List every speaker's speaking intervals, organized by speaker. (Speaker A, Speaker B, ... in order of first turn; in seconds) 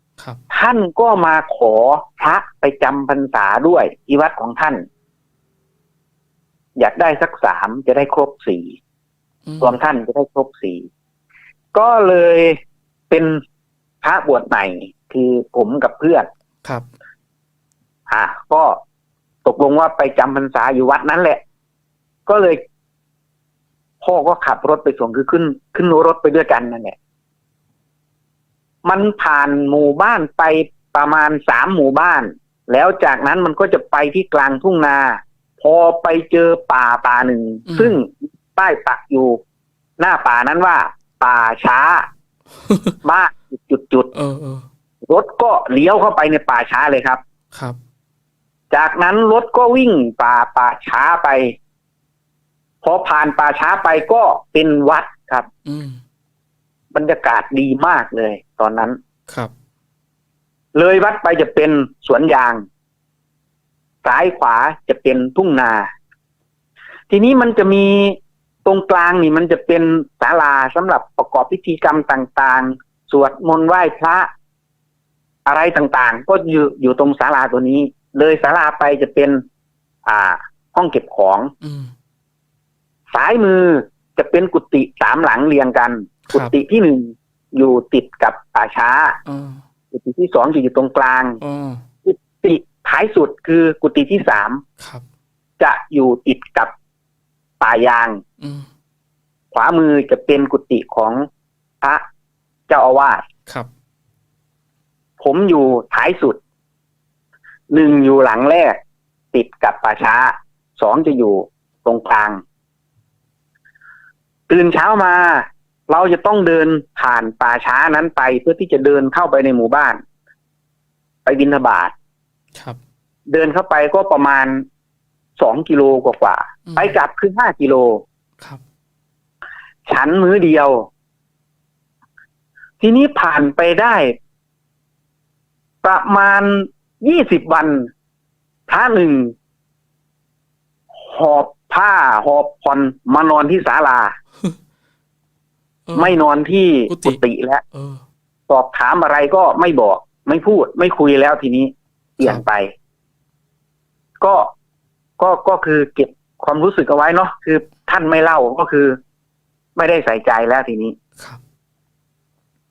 Speaker A: 0.5-4.8, 6.8-8.8, 9.6-10.9, 11.7-12.6, 13.1-13.4, 14.0-16.3, 18.1-18.8, 19.4-21.4, 22.3-22.6, 24.0-27.0, 28.8-39.4, 40.0-42.1, 43.0-44.1, 45.0-47.2, 48.7-51.5, 52.8-55.5, 56.9-59.0, 60.7-62.6, 64.0-65.9, 67.1-74.3, 75.5-79.4, 80.1-81.5, 83.1-89.2, 89.9-91.4, 92.0-94.6, 95.6-96.7, 97.6-98.2, 99.5-101.3, 102.7-103.2, 105.2-106.4, 107.7-108.8, 109.3-112.4, 114.5-120.0, 121.2-121.9, 123.3-124.7, 125.4-128.0, 129.9-130.9, 132.8-134.2, 135.8-137.9, 138.7-139.3, 141.0-144.2, 145.9-147.6, 148.5-152.7, 154.2-154.5, 155.2-159.0, 159.8-161.0
Speaker B: 9.5-9.8, 37.7-38.0, 42.7-43.0, 44.1-44.6, 55.6-56.0, 81.6-81.9, 86.3-86.5, 89.3-89.6, 91.4-91.8, 98.4-98.7, 126.7-127.0, 145.9-146.2, 146.9-147.2, 147.7-148.0